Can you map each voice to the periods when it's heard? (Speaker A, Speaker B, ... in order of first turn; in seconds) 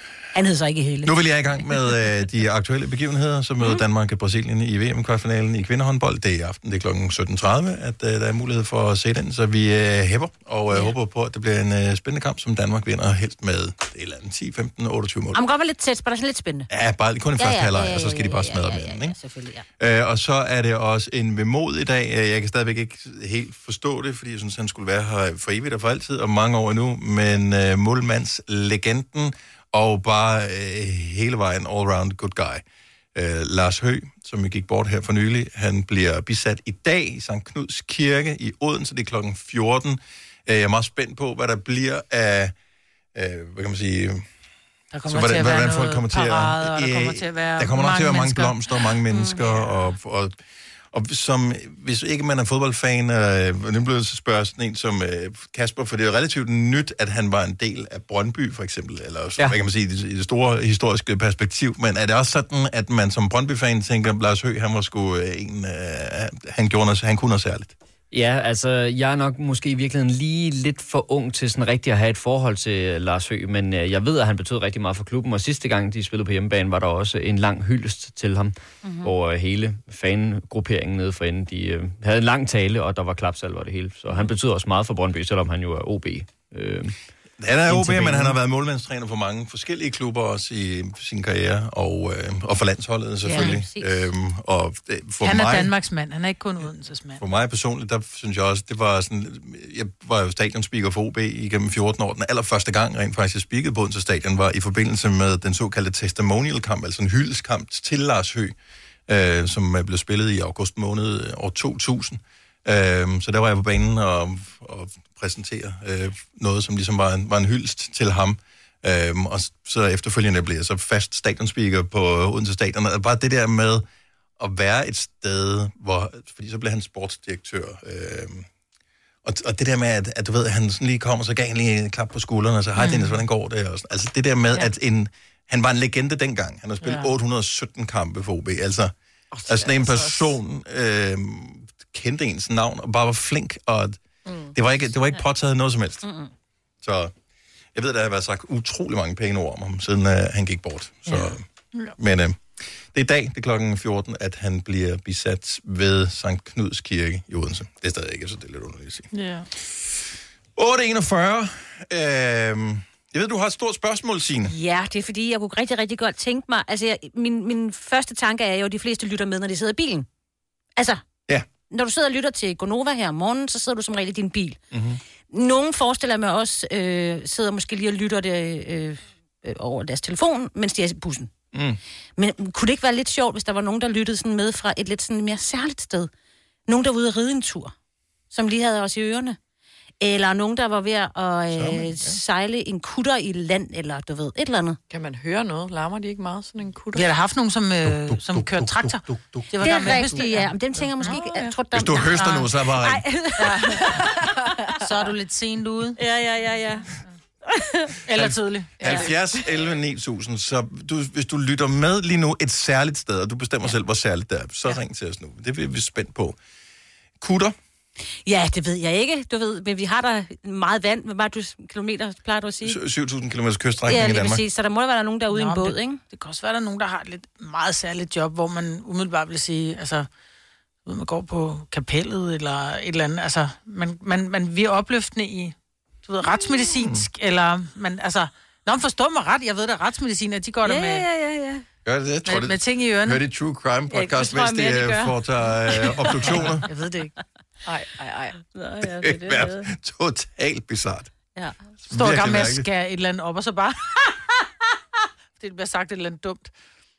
Speaker A: 0.3-1.1, 15.3-16.7, 17.4-19.6, 49.1-49.5, 78.8-79.1, 93.2-94.1, 146.0-146.3, 164.5-170.1, 170.8-171.0, 171.7-174.6, 175.3-181.3, 182.2-186.1, 186.7-187.7, 188.3-189.4, 190.0-194.8, 199.6-204.2, 206.0-206.9, 207.5-207.9, 218.3-222.8, 223.9-226.0, 240.6-241.6, 243.9-245.1, 248.4-249.7
Speaker B: 1.0-15.4, 16.7-19.2, 19.8-32.6, 33.1-42.5, 43.1-44.2, 45.1-50.4, 50.9-67.7, 87.4-95.7, 97.2-108.5, 109.1-123.8, 124.4-128.5, 129.2-138.9, 139.5-144.0, 144.5-146.1, 146.8-147.1, 147.8-151.4, 152.0-152.4, 152.9-159.1, 160.6-164.6, 174.7-175.0, 181.5-181.8, 191.5-192.2, 197.8-199.5, 201.7-203.0, 208.1-216.4, 217.2-217.6, 222.6-224.4, 236.8-237.0, 241.8-246.6, 248.8-251.1, 251.8-252.6
Speaker C: 44.9-48.6, 93.3-93.6, 95.2-97.2, 132.8-133.2, 136.8-137.1, 159.1-159.5, 196.9-201.2, 202.1-202.5, 203.4-204.0, 204.8-206.0, 208.1-209.0, 225.3-230.1, 230.9-241.1, 242.3-243.2, 246.7-247.1, 251.9-254.2, 255.4-256.5
Speaker D: 68.1-86.9, 87.7-88.4
Speaker E: 139.3-140.3, 144.3-144.5, 194.9-197.1, 201.0-201.5, 208.8-209.3, 247.7-248.4